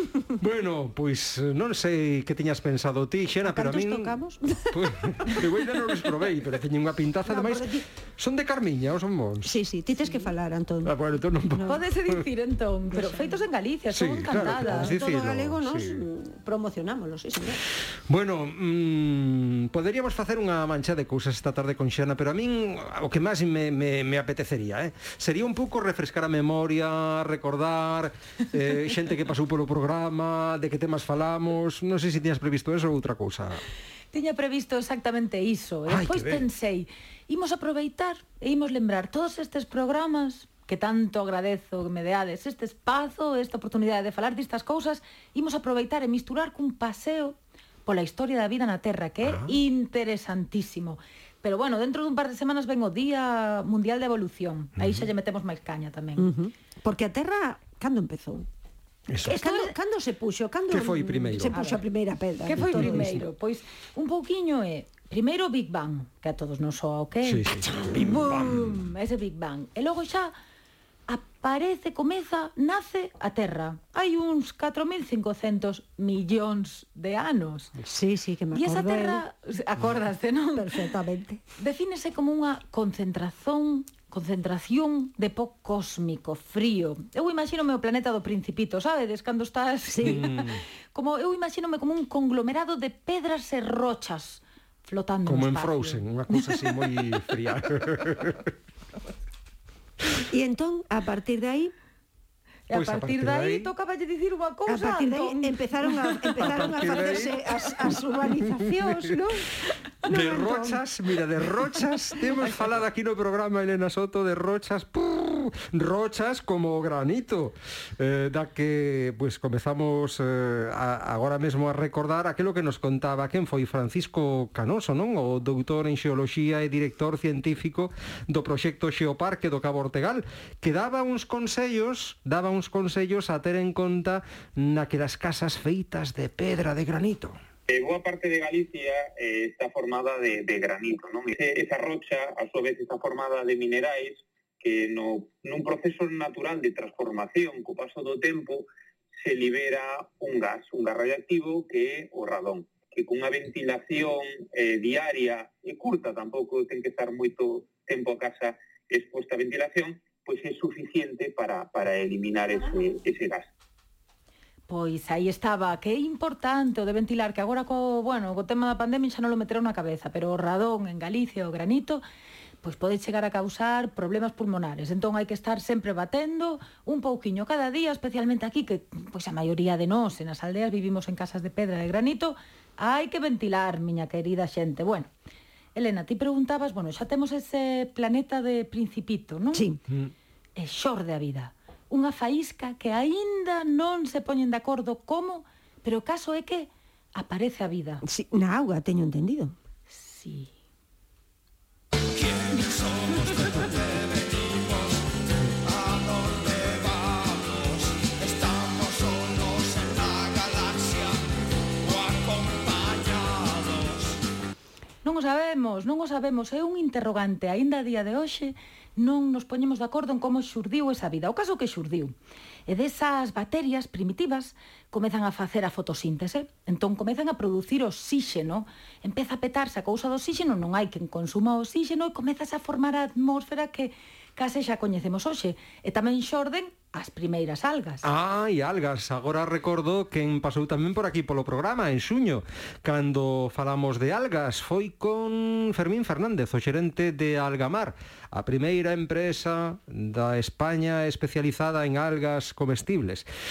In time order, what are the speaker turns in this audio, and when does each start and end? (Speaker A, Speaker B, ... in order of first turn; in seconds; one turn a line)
Speaker A: 0.4-4.2
Speaker B: 3.4-5.5
Speaker A: 4.7-9.6
Speaker B: 7.2-7.8
Speaker B: 9.4-11.8
Speaker A: 10.8-12.2
Speaker C: 11.6-15.0
Speaker B: 12.9-13.4
Speaker A: 13.9-16.0
Speaker B: 14.4-17.6
Speaker A: 18.1-33.6
Speaker C: 34.1-47.3
Speaker A: 35.9-36.4
Speaker C: 47.9-56.3
Speaker A: 49.2-49.5
Speaker B: 56.2-58.5
Speaker A: 59.1-59.4
Speaker C: 59.2-59.7
Speaker B: 59.3-63.2
Speaker A: 60.7-61.6
Speaker C: 61.5-61.8
Speaker C: 62.4-70.3
Speaker A: 62.6-63.1
Speaker A: 67.2-68.8
Speaker C: 71.1-77.8
Speaker B: 77.8-79.2
Speaker C: 78.5-80.8
Speaker B: 80.5-81.4
Speaker C: 81.6-96.0
Speaker B: 89.9-90.2
Speaker A: 90.0-90.6
Speaker A: 95.2-98.5
Speaker B: 100.2-101.7
Speaker C: 102.7-107.3
Speaker A: 102.7-103.7
Speaker B: 104.7-109.5
Speaker A: 106.3-108.0
Speaker A: 108.5-109.0
Speaker B: 110.0-110.8
Speaker A: 110.1-137.4
Speaker D: 137.7-148.7
Speaker D: 149.2-163.4
Speaker C: 164.7-172.0
Speaker C: 172.6-185.1
Speaker C: 185.7-189.7
Speaker B: 189.5-189.8
Speaker C: 190.6-198.0
Speaker B: 198.0-199.5
Speaker C: 199.9-200.5
Speaker A: 203.3-204.0
Speaker E: 206.5-207.4
Speaker E: 208.5-209.7
Speaker C: 215.0-222.1
Speaker C: 222.7-238.1
Speaker A: 238.0-253.3